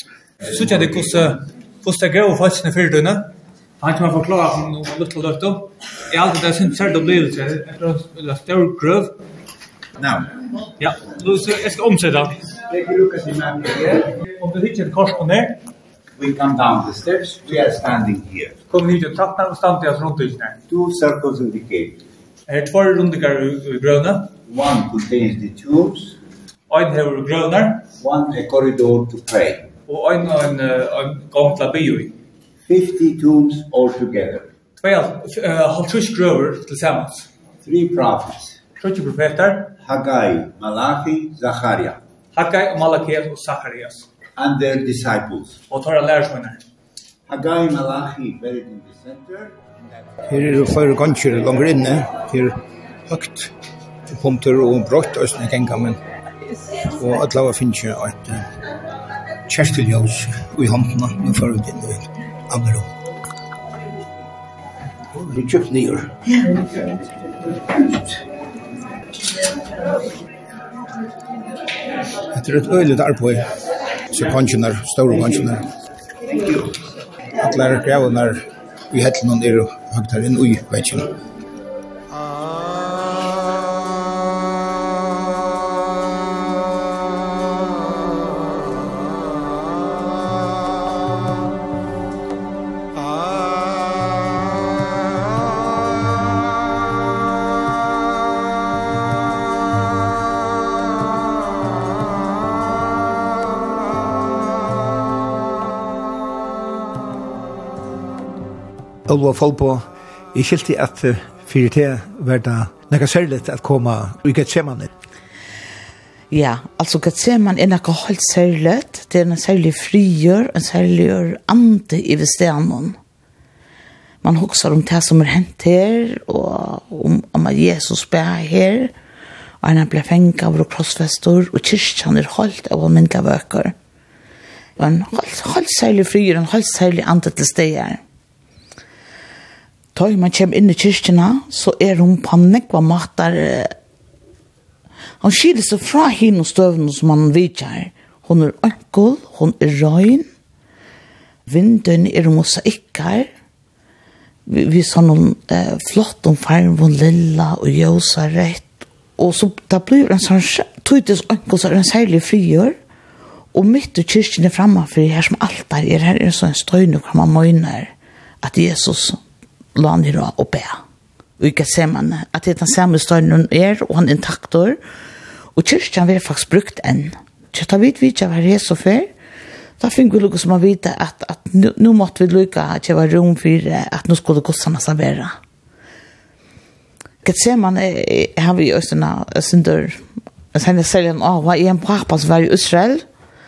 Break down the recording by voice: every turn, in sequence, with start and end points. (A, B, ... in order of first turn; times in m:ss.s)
0:00.5-0:09.2 A
0:10.0-0:10.3 B
0:10.8-0:12.4 A
0:12.7-0:14.1 B
0:14.2-0:15.6 A
0:16.2-0:18.6 B
0:18.7-0:20.6 A
0:20.7-0:22.0 B
0:22.5-0:24.3 A
0:24.5-0:26.2 B
0:26.7-0:27.8 A
0:28.0-0:29.7 B
0:29.9-0:32.2 A
0:32.7-0:34.5 B
0:34.8-0:37.3 A
0:37.6-0:38.6 B
0:38.8-0:39.7 A
0:39.8-0:42.0 B
0:42.3-0:44.1 A
0:44.4-0:45.6 B
0:45.7-0:46.6 A
0:47.3-0:49.6 B
0:50.3-0:53.5 C
0:54.1-0:56.0 C
0:56.9-0:58.5 C
0:59.5-1:02.9 C
1:05.1-1:06.2 C
1:12.3-1:13.5 C
1:14.1-1:15.7 C
1:17.4-1:21.1 C
1:49.1-1:54.9 D
1:56.3-2:03.0 E
2:04.2-2:08.9 E
2:09.6-2:13.7 E
2:14.8-2:18.0 E
2:20.0-2:23.7 E
2:25.2-2:30.3 E
2:31.5-2:33.3 E
2:34.5-2:42.8 E
2:43.5-2:49.2 E
2:49.8-2:50.8 E
2:51.4-2:54.8 E
2:55.6-2:59.1 E
2:59.8-3:05.3 E
3:07.2-3:13.0 E